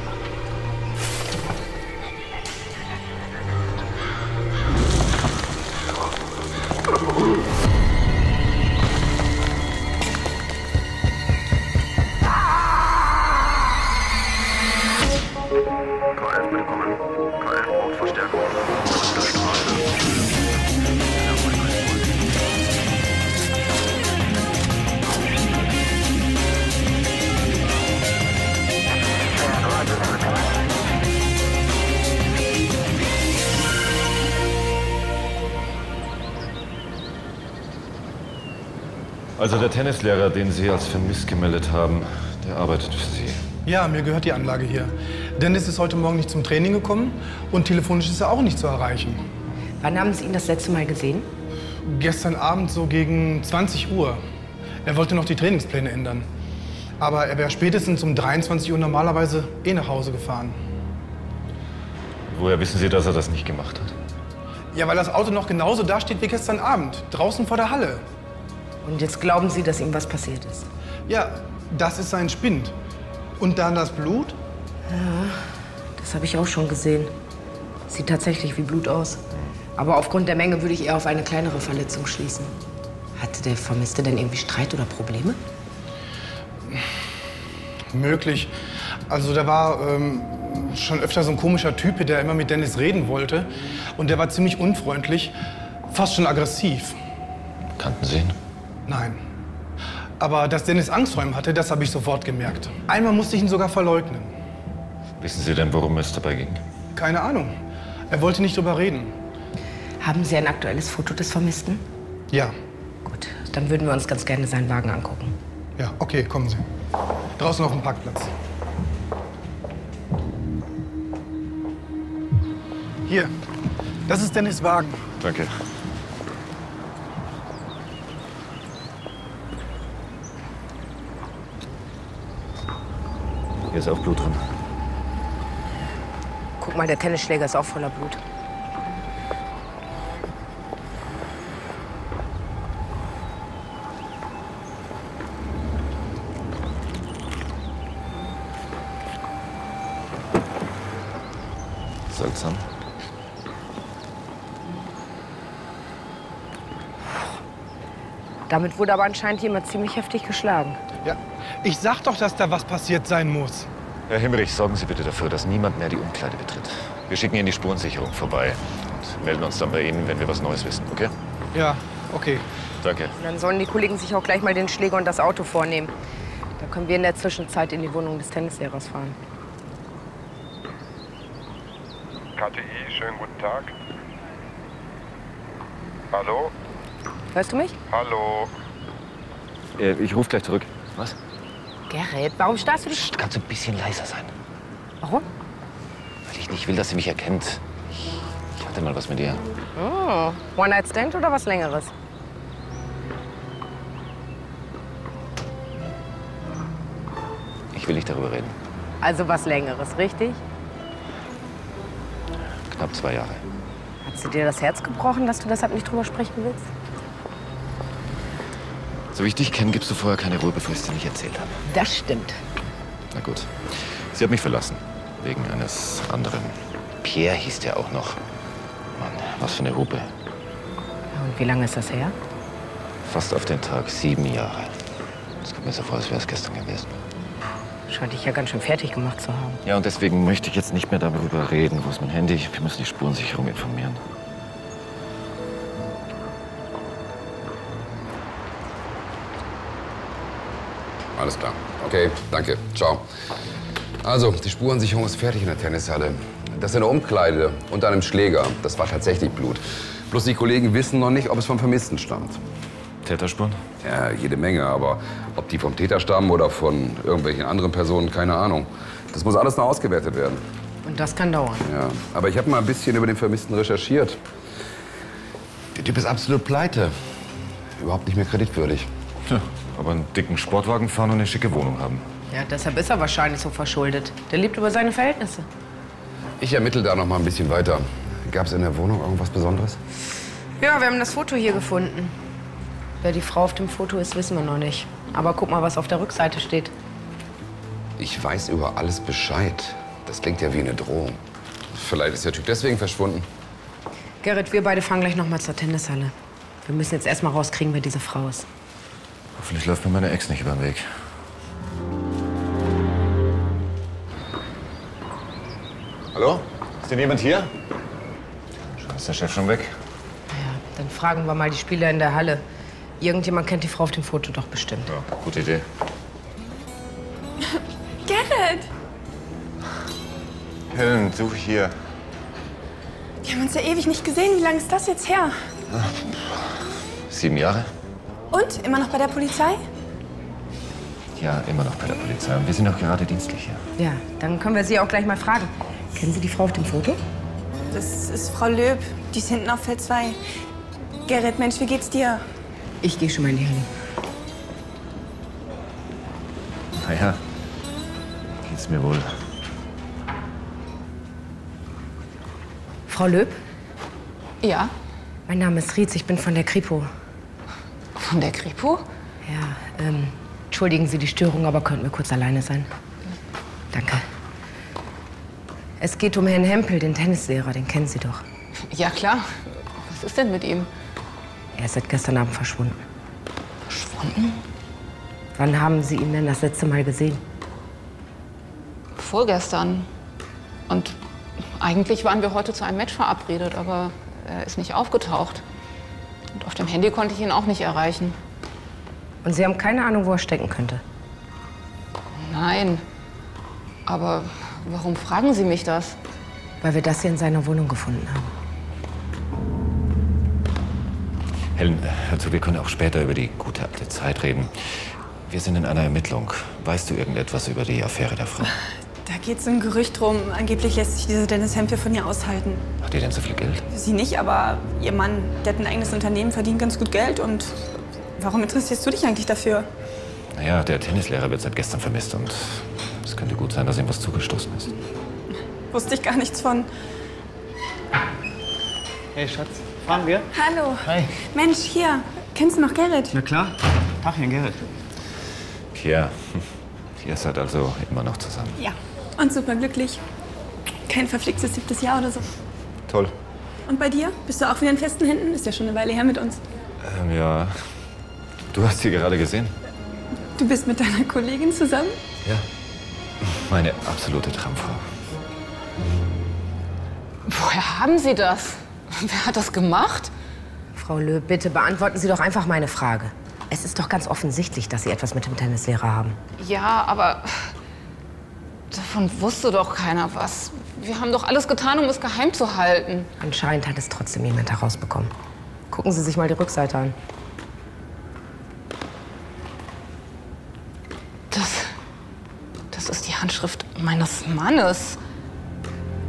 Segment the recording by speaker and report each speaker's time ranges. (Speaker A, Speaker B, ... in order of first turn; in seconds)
Speaker A: 16.2-19.9, 21.1-22.1, 39.4-43.4, 62.3-64.0, 97.8-98.4, 105.2-106.6, 125.2-125.5, 133.7-134.4, 152.1-152.6, 164.1-171.1, 172.8-173.2, 189.8-191.2, 192.9-194.3, 196.2-199.4, 207.7-208.6, 212.7-213.4, 219.1-221.6, 223.1-228.2, 228.9-230.1, 233.1-234.8, 235.4-237.0, 239.6-244.0, 263.0-263.6, 279.3-282.1, 309.4-310.9, 316.1-317.5, 318.6-319.7, 324.9-325.6, 330.7-331.7, 335.7-336.5, 337.1-337.7, 341.1-343.6, 356.8-357.2, 358.4-359.1, 411.6-414.5, 415.3-418.5, 422.8-423.6, 430.3-434.7, 445.7-446.4, 447.0-448.6, 452.9-453.1, 456.8-457.5, 458.5-459.5, 463.2-464.8
Speaker B: 43.6-49.2, 51.9-54.2, 54.8-56.3, 57.0-60.6, 64.7-68.0, 71.1-72.8, 73.4-74.4, 87.9-88.5, 89.1-95.3, 95.9-97.0, 98.9-99.2, 100.2-104.3, 107.0-107.5, 108.1-109.1, 115.8-116.7, 117.4-118.3, 123.1-123.3, 124.1-125.0, 161.0-163.7, 171.5-172.4
Speaker C: 49.8-51.3, 68.8-70.7, 74.9-75.4, 76.0-77.1, 77.9-79.2, 79.8-82.5, 83.2-85.4, 110.0-111.8, 113.1-115.3, 136.6-138.2, 158.5-160.8, 173.2-175.9, 176.6-179.2, 187.3-187.8, 191.9-193.1, 199.8-201.9, 209.0-210.4, 214.1-216.7, 221.7-222.4, 231.1-232.2, 237.9-239.6, 270.8-271.7, 282.3-285.5, 290.6-292.2, 293.0-296.7, 304.2-306.1, 306.6-308.5, 320.3-322.4, 323.0-324.9, 343.8-347.0, 352.8-353.7, 362.9-363.4, 365.3-366.9, 369.2-372.7, 373.7-374.1, 375.8-378.2, 381.6-382.8, 385.4-387.2, 399.2-400.8, 406.6-408.3, 470.8-476.2, 483.2-485.1, 485.7-487.0
Speaker D: 182.4-183.7, 186.1-186.5, 187.9-188.5
Speaker E: 251.2-253.0, 254.0-262.4, 263.8-270.4, 271.7-274.2, 275.8-276.9, 277.8-278.9, 286.4-289.8, 298.0-301.2, 301.7-303.3
Speaker F: 327.5-328.7, 333.2-335.3, 338.3-339.6, 347.7-350.2, 351.1-352.2, 419.1-422.6, 423.7-429.7, 435.7-436.7, 440.3-443.1, 448.6-450.0, 450.9-452.3, 453.7-456.4, 460.4-462.0
Speaker G: 364.4-364.7, 368.0-368.9, 378.7-379.2, 379.8-380.7, 383.7-384.4, 389.0-389.9, 390.7-395.4, 396.4-398.2, 402.1-402.8, 403.9-406.0, 467.3-470.1, 476.4-477.5, 478.7-483.1, 491.3-491.7, 492.7-495.0
Speaker H: 439.1-440.3, 440.9-441.1, 443.1-444.6